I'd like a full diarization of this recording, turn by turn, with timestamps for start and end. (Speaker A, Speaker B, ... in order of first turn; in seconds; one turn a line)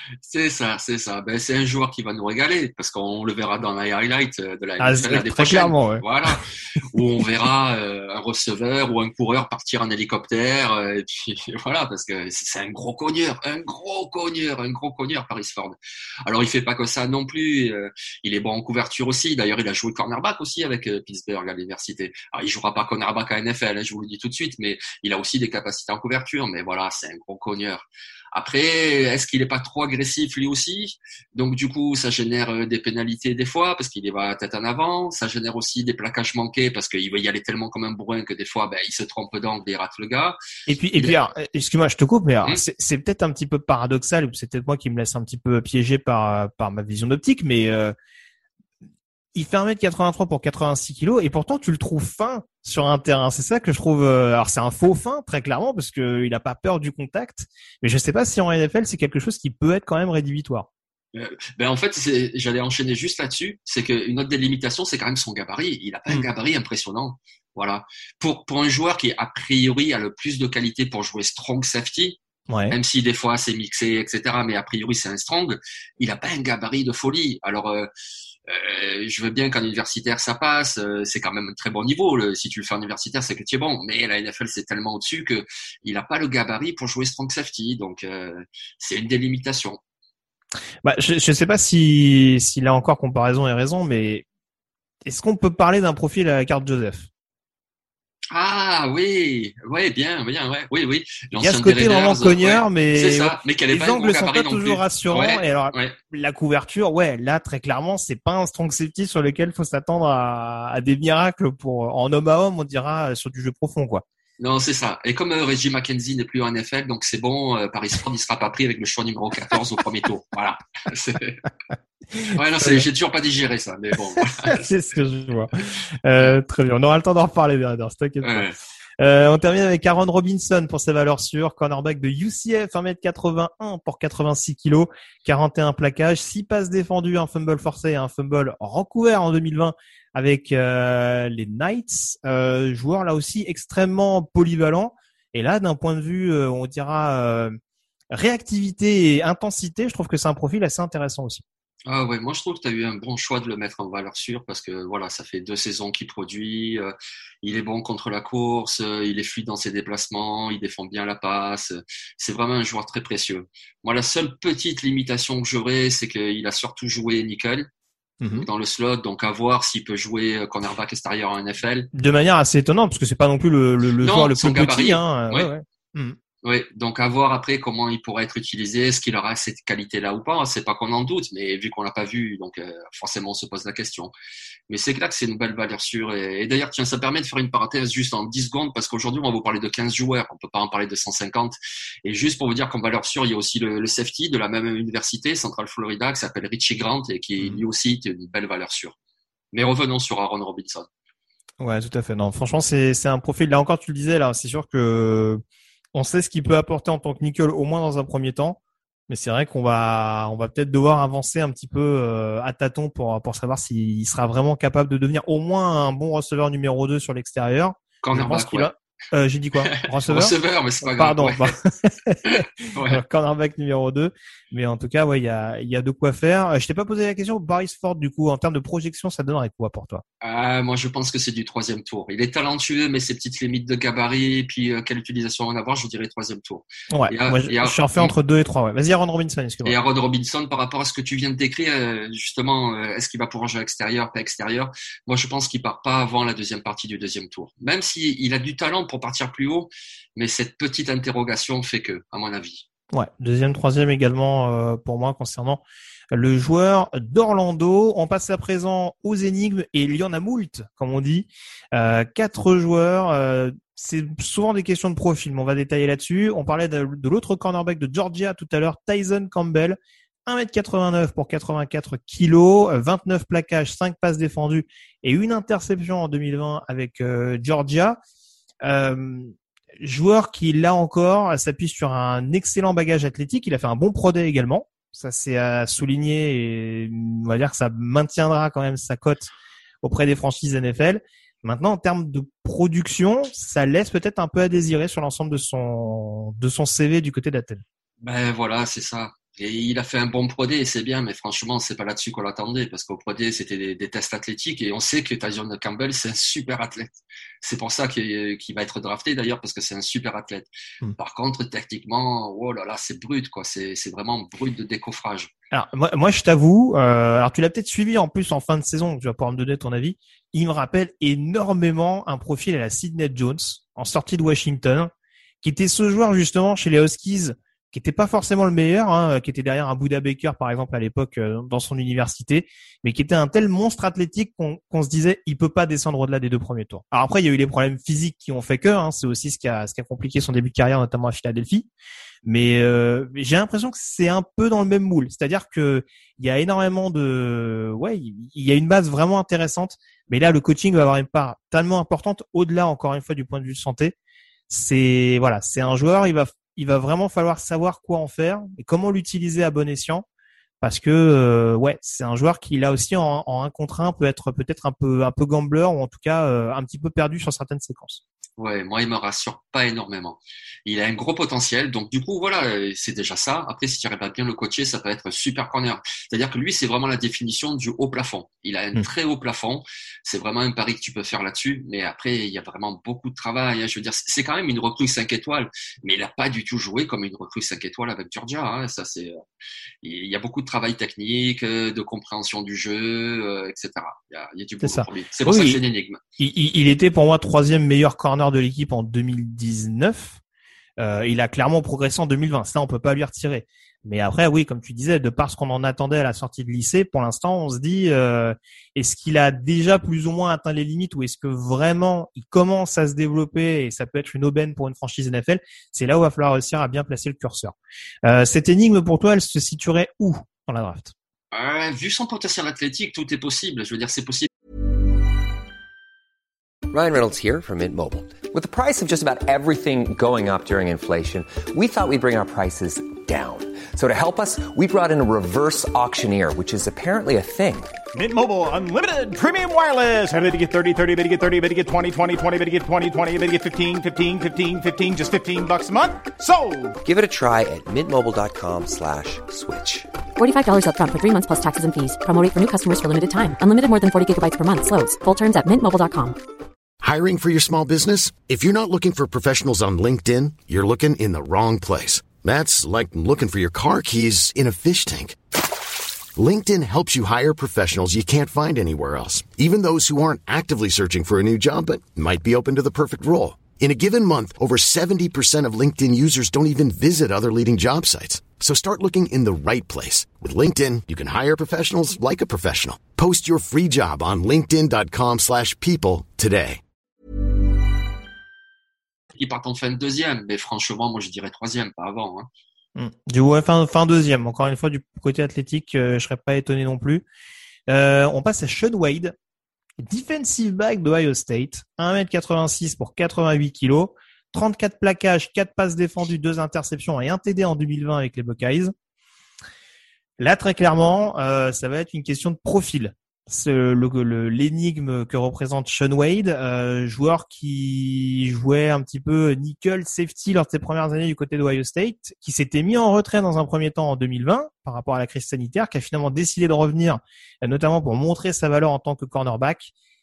Speaker A: 0.2-40.4
Speaker B: 4.8-6.1
Speaker B: 40.7-48.0
Speaker B: 49.4-60.7
Speaker A: 61.1-72.2
Speaker B: 72.5-72.8
Speaker A: 72.7-77.9
Speaker A: 78.5-89.8
Speaker B: 90.8-94.2
Speaker B: 95.1-97.1
Speaker A: 98.3-106.0
Speaker B: 101.3-114.0
Speaker A: 114.4-121.4
Speaker A: 122.3-124.7
Speaker B: 122.6-122.9
Speaker B: 124.4-128.4
Speaker A: 128.2-128.6
Speaker B: 129.0-147.6
Speaker B: 148.1-151.4
Speaker A: 151.9-167.7
Speaker B: 168.2-168.5
Speaker A: 168.2-171.9
Speaker B: 171.9-176.2
Speaker A: 174.0-175.5
Speaker A: 176.4-184.1
Speaker A: 184.7-198.9
Speaker A: 199.5-200.9
Speaker B: 201.6-205.4
Speaker B: 205.9-230.0
Speaker A: 218.0-218.7
Speaker A: 219.6-221.5
Speaker A: 222.2-223.0
Speaker A: 230.2-238.1
Speaker B: 236.9-239.8
Speaker A: 239.7-252.7
Speaker B: 252.9-278.0
Speaker B: 278.6-289.3
Speaker B: 289.8-297.6
Speaker A: 298.0-315.3
Speaker B: 315.5-324.9
Speaker B: 325.4-341.7
Speaker B: 342.2-353.9
Speaker B: 354.5-360.1
Speaker B: 360.6-368.0
Speaker A: 368.4-389.2
Speaker A: 389.8-396.0
Speaker B: 394.6-395.6
Speaker B: 396.2-400.2
Speaker B: 400.8-420.9
Speaker A: 421.3-424.3
Speaker C: 426.7-437.7
Speaker D: 437.9-446.8
Speaker C: 446.8-449.9
Speaker E: 450.2-456.2
Speaker F: 456.8-465.2
Speaker F: 466.2-486.6
Speaker A: 489.1-492.3
Speaker B: 492.8-497.1
Speaker B: 497.7-499.1
Speaker B: 499.8-508.7
Speaker B: 510.2-529.7